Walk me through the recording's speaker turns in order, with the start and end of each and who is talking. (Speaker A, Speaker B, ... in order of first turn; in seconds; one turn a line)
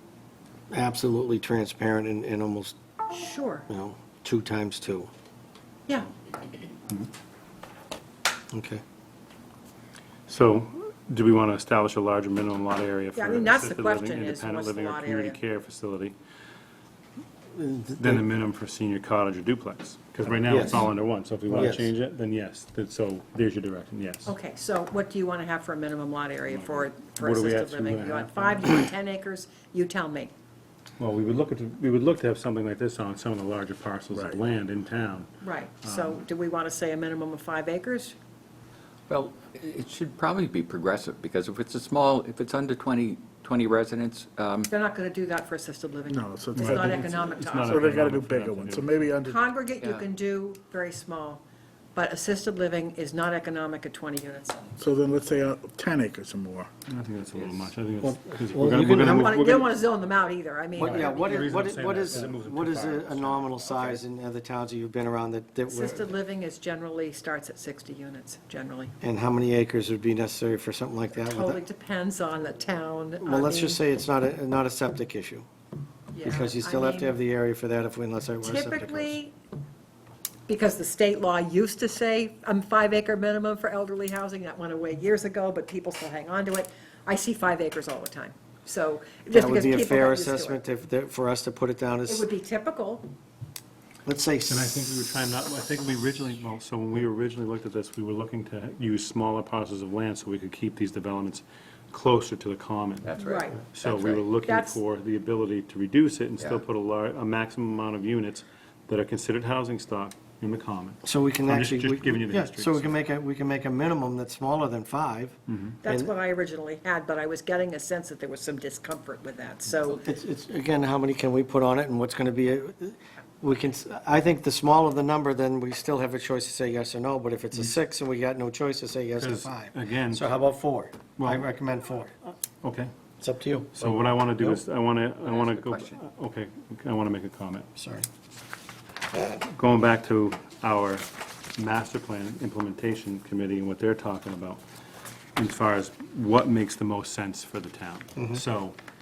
Speaker A: 0.7-2.8
Speaker B: 3.1-3.7
Speaker A: 3.7-5.1
Speaker A: 8.5-8.8
Speaker C: 10.3-16.1
Speaker B: 13.2-15.4
Speaker A: 17.5-18.2
Speaker C: 18.0-24.4
Speaker A: 20.5-20.9
Speaker A: 21.5-21.9
Speaker B: 24.3-30.3
Speaker C: 26.5-28.9
Speaker C: 31.0-35.3
Speaker B: 35.4-38.2
Speaker C: 35.8-36.2
Speaker D: 39.1-44.7
Speaker B: 44.7-48.0
Speaker E: 46.1-49.4
Speaker C: 46.5-49.0
Speaker B: 49.2-51.4
Speaker D: 49.8-50.1
Speaker B: 51.9-54.7
Speaker E: 54.8-56.7
Speaker C: 56.9-59.6
Speaker A: 58.0-59.7
Speaker B: 58.9-61.5
Speaker C: 60.8-64.0
Speaker A: 60.8-66.1
Speaker B: 65.7-68.9
Speaker A: 69.0-71.6
Speaker B: 71.3-73.8
Speaker A: 73.2-75.5
Speaker B: 76.1-77.2
Speaker A: 76.2-79.1
Speaker B: 78.4-79.3
Speaker B: 80.5-90.6
Speaker A: 89.3-92.3
Speaker B: 92.1-93.1
Speaker A: 94.0-94.8
Speaker C: 94.5-103.1
Speaker D: 103.0-104.3
Speaker B: 103.2-103.6
Speaker C: 103.7-113.0
Speaker B: 104.5-104.8
Speaker A: 111.0-116.1
Speaker C: 115.5-115.8
Speaker B: 115.8-120.0
Speaker A: 119.9-132.1
Speaker C: 129.2-130.3
Speaker C: 131.2-131.5
Speaker C: 132.6-132.9
Speaker A: 133.2-134.6
Speaker C: 133.8-137.7
Speaker D: 135.2-136.0
Speaker A: 137.8-138.1
Speaker C: 139.1-144.6
Speaker C: 145.4-148.8